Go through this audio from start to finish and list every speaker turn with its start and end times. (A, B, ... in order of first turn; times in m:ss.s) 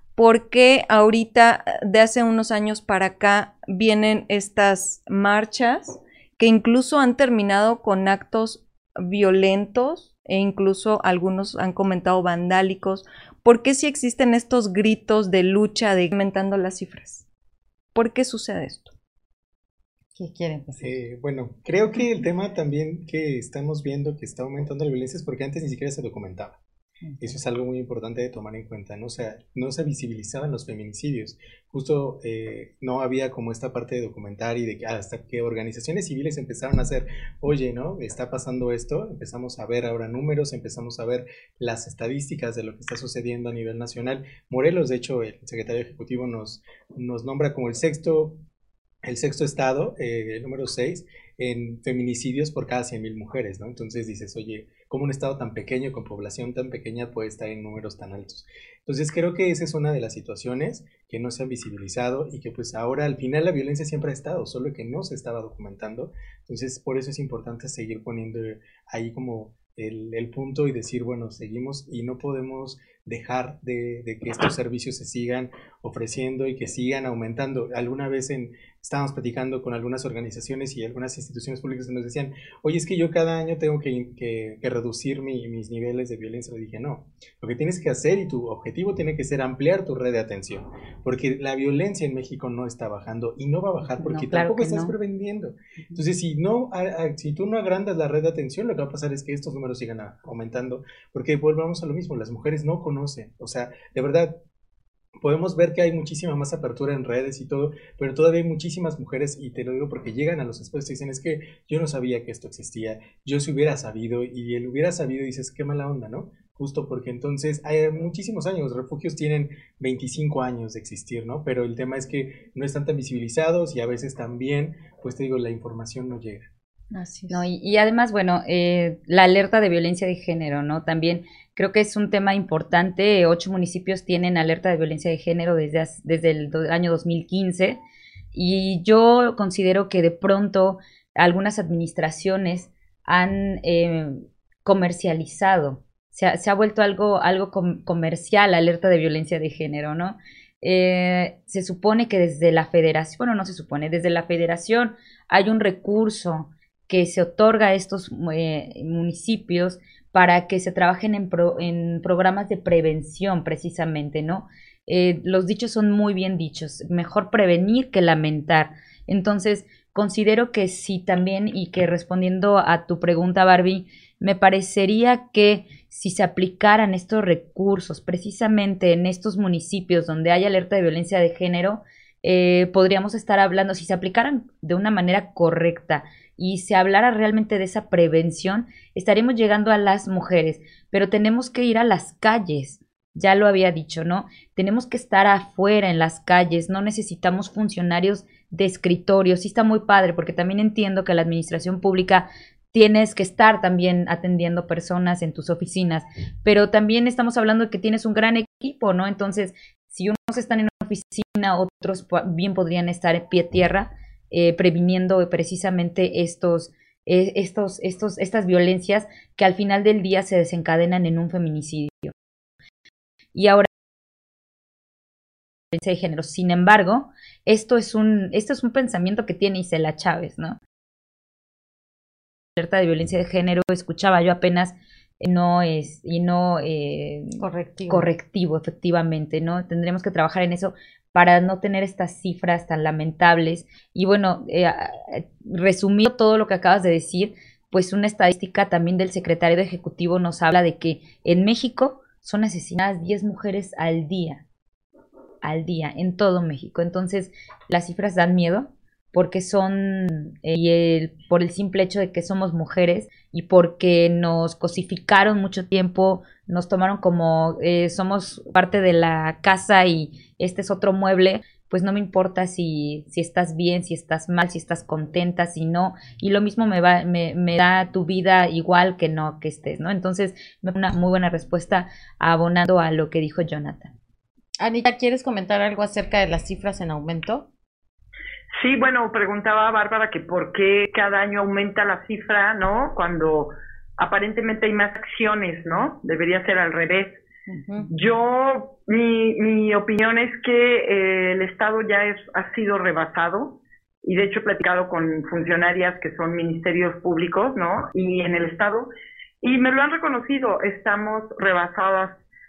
0:00.2-0:17.2 A
0:18.0-0:18.9 A
0:20.2-0:20.9 B
0:20.8-0:26.6 C
0:27.0-0:27.3 B
0:27.2-0:48.4 C
0:49.0-1:44.4 C
1:34.0-1:34.9 D
1:45.2-2:06.5 C
2:06.9-2:07.5 A
2:07.3-2:17.8 D
2:18.3-3:42.1 D
3:43.4-3:43.7 D
3:45.7-3:50.6 D
3:52.6-4:14.4 D
3:57.4-3:58.1 B
4:15.4-4:43.9 D
4:44.6-4:47.5 B
4:48.5-4:57.2 E
4:57.5-4:57.9 B
4:57.9-5:08.9 E
5:09.4-5:12.2 E